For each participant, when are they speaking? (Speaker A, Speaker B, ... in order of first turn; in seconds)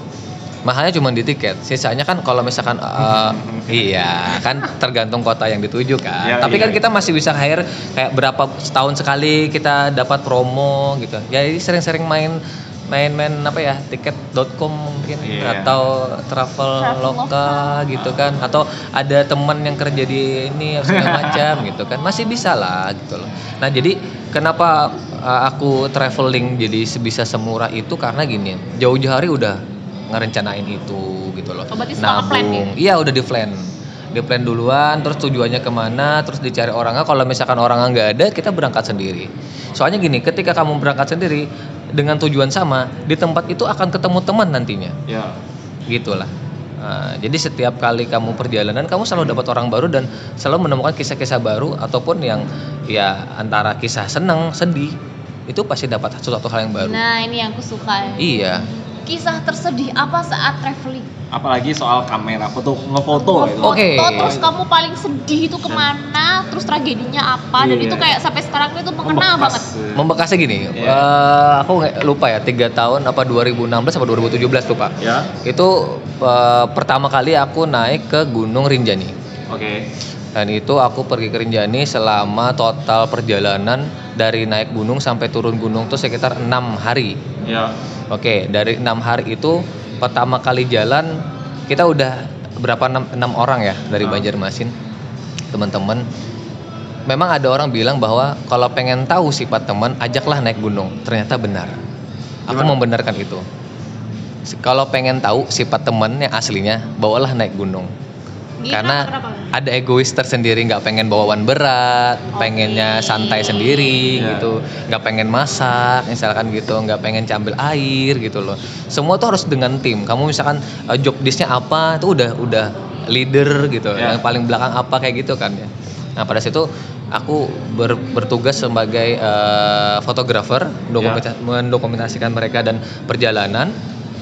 Speaker A: 0.6-45.0, 45.9-55.0, 55.5-57.0, 58.2-58.6, 63.6-64.4, 69.9-79.1, 80.3-87.2, 88.1-91.2, 91.7-94.7, 95.5-96.0, 97.1-101.7, 102.5-103.4, 104.5-107.9, 108.7-133.7
Speaker B: 3.0-4.6, 6.2-6.8, 15.2-15.8, 20.9-21.4, 45.1-45.4, 61.3-64.5, 67.6-68.1, 69.0-70.0, 70.8-71.0, 75.0-75.3, 79.5-79.8, 87.4-87.7, 94.0-94.3, 102.5-102.8, 114.1-114.5
Speaker C: 16.8-17.8, 31.7-32.7, 56.8-58.4, 59.0-61.1, 63.1-69.7, 108.6-109.5, 112.3-114.1